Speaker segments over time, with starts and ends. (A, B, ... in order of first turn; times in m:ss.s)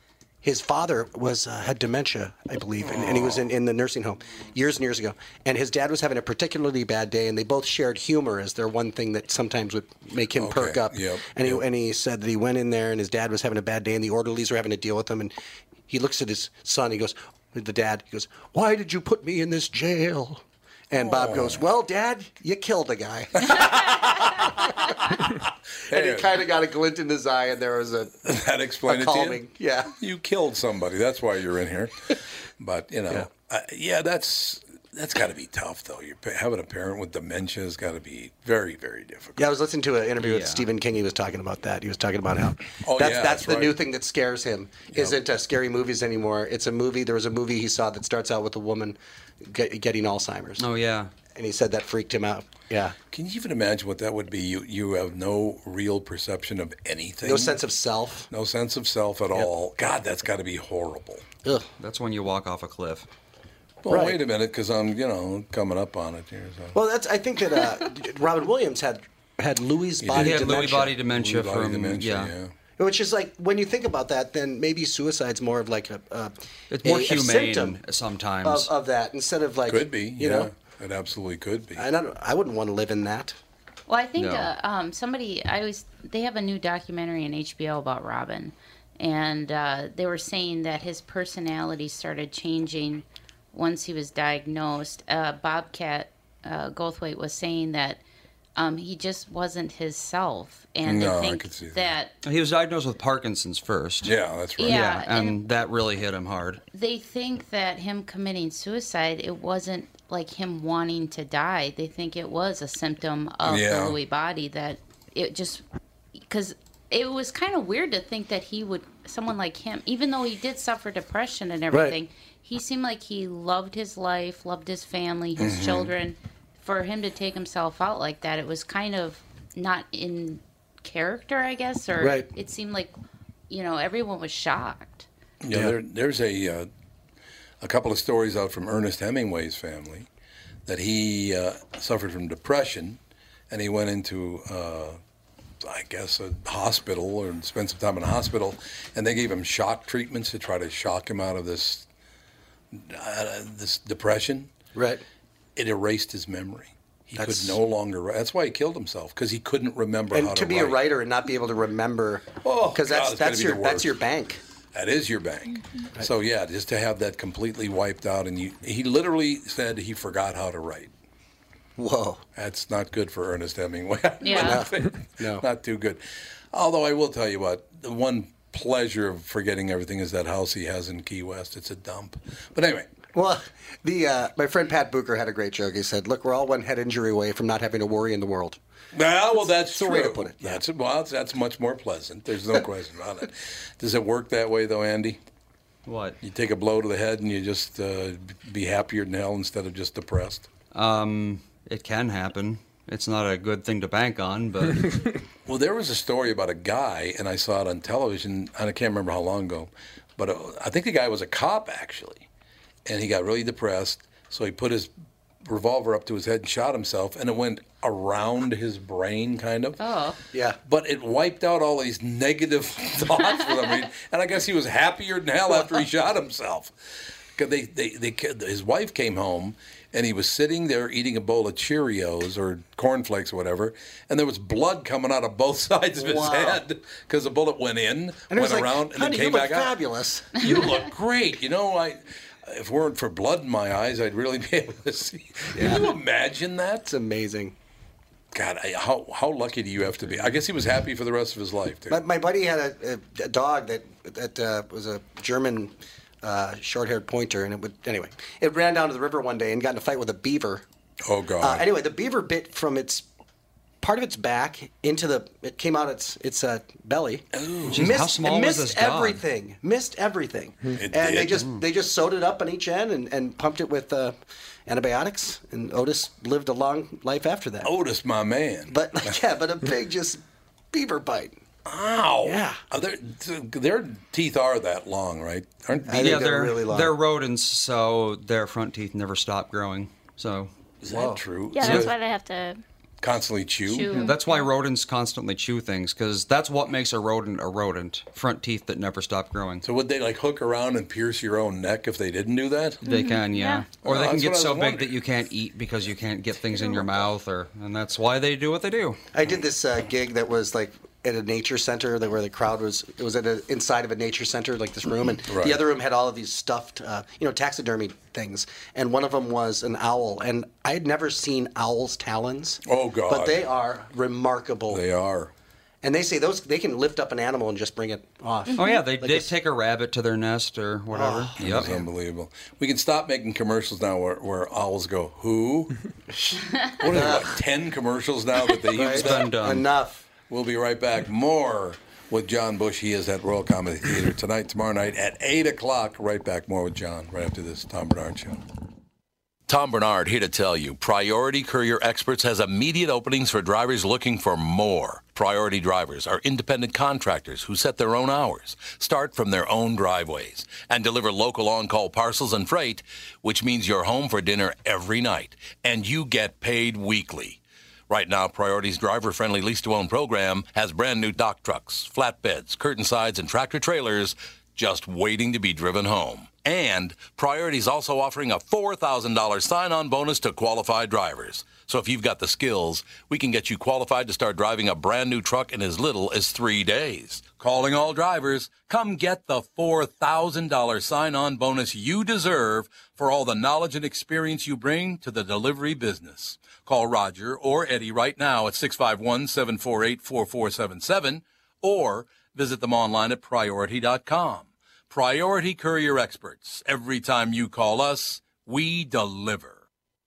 0:00.4-0:15.3 A
0:02.8-0:03.4 B
0:10.4-0:11.6 B
0:15.9-0:25.0 A
0:21.0-0:21.6 B
0:25.9-0:26.4 B
0:25.9-0:28.2 A
0:28.2-0:29.4 B
0:28.9-0:29.9 A
0:30.0-0:39.4 B
0:39.4-0:50.6 A
0:40.2-0:40.7 C
0:42.8-0:43.8 B
0:44.9-0:45.2 B
0:50.6-0:51.1 C
0:51.3-0:53.0 A
0:53.1-0:57.6 B
0:57.2-0:58.3 A
0:58.3-1:01.2 B
1:01.8-1:03.1 C
1:03.8-1:06.8 B
1:03.9-1:04.2 A
1:06.7-1:10.9 A
1:10.0-1:12.5 B
1:10.1-1:12.3 C
1:12.8-1:17.8 A
1:16.7-1:18.7 C
1:18.4-1:20.5 A
1:19.7-1:21.8 B
1:21.8-1:23.4 A
1:23.9-1:38.0 D
1:24.2-1:24.5 C
1:38.6-1:42.1 D
1:40.8-1:41.9 B
1:42.2-1:44.1 C
1:44.0-1:44.8 B
1:44.6-1:45.4 D
1:44.7-1:46.6 C
1:46.7-1:55.6 D
1:53.4-1:54.0 B
1:56.3-2:12.9 D
2:01.7-2:02.0 A
2:05.4-2:05.9 B
2:12.0-2:12.3 A
2:13.5-2:15.1 D
2:15.4-2:16.7 B
2:17.6-2:20.1 B
2:20.6-2:23.0 B
2:23.5-2:25.0 B
2:25.6-2:31.9 B
2:32.7-2:34.5 B
2:34.7-2:35.0 A
2:35.6-2:40.8 B
2:37.2-2:37.6 A
2:40.1-2:44.4 A
2:42.4-2:44.0 B
2:44.7-2:50.9 B
2:51.8-2:52.2 A
2:52.4-2:56.0 B
2:54.2-2:54.6 D
2:54.3-2:55.4 A
2:56.5-3:02.9 B
3:03.1-3:08.6 A
3:08.9-3:15.2 B
3:09.4-3:10.6 A
3:15.9-3:16.2 C
3:16.2-3:20.5 B
3:20.7-3:24.9 C
3:25.5-3:32.3 B
3:32.9-3:34.9 B
3:35.4-3:39.8 B
3:39.8-3:40.2 D
3:40.3-3:40.6 A
3:40.6-3:46.7 B
3:45.5-3:45.8 A
3:47.4-3:59.7 B
3:56.0-3:56.6 A
3:58.3-4:00.4 A
4:00.3-4:06.9 B
4:05.5-4:05.9 A
4:06.9-4:07.6 A
4:08.3-4:12.0 B
4:11.9-4:20.6 A
4:21.0-4:21.6 B
4:21.4-4:23.1 A
4:23.8-4:34.2 A
4:27.3-4:28.0 B
4:27.7-4:29.2 C
4:30.7-4:31.5 B
4:34.7-4:37.7 A
4:37.6-4:39.2 B
4:38.7-4:41.4 A
4:41.6-4:46.3 B
4:42.2-4:42.6 A
4:45.9-4:47.0 A
4:45.9-4:50.5 C
4:50.8-4:52.0 B
4:50.9-4:51.9 A
4:51.5-4:52.6 E
4:53.0-4:53.9 B
4:53.7-4:54.4 D
4:53.9-4:54.2 E
4:54.0-4:59.6 C
4:59.6-5:02.8 B
5:02.8-5:09.0 C
5:02.9-5:03.6 E
5:02.9-5:03.6 D
5:03.8-5:05.0 B
5:09.1-5:24.8 A
5:15.3-5:15.6 B
5:22.7-5:23.4 B
5:24.7-5:25.3 B
5:25.8-5:29.3 A
5:28.6-5:31.7 C
5:30.9-5:31.8 A
5:31.4-5:35.7 B
5:36.2-5:37.4 A
5:36.8-5:39.3 B
5:38.7-5:40.0 A
5:38.9-5:39.7 C
5:40.3-5:48.4 B
5:49.5-6:49.6 B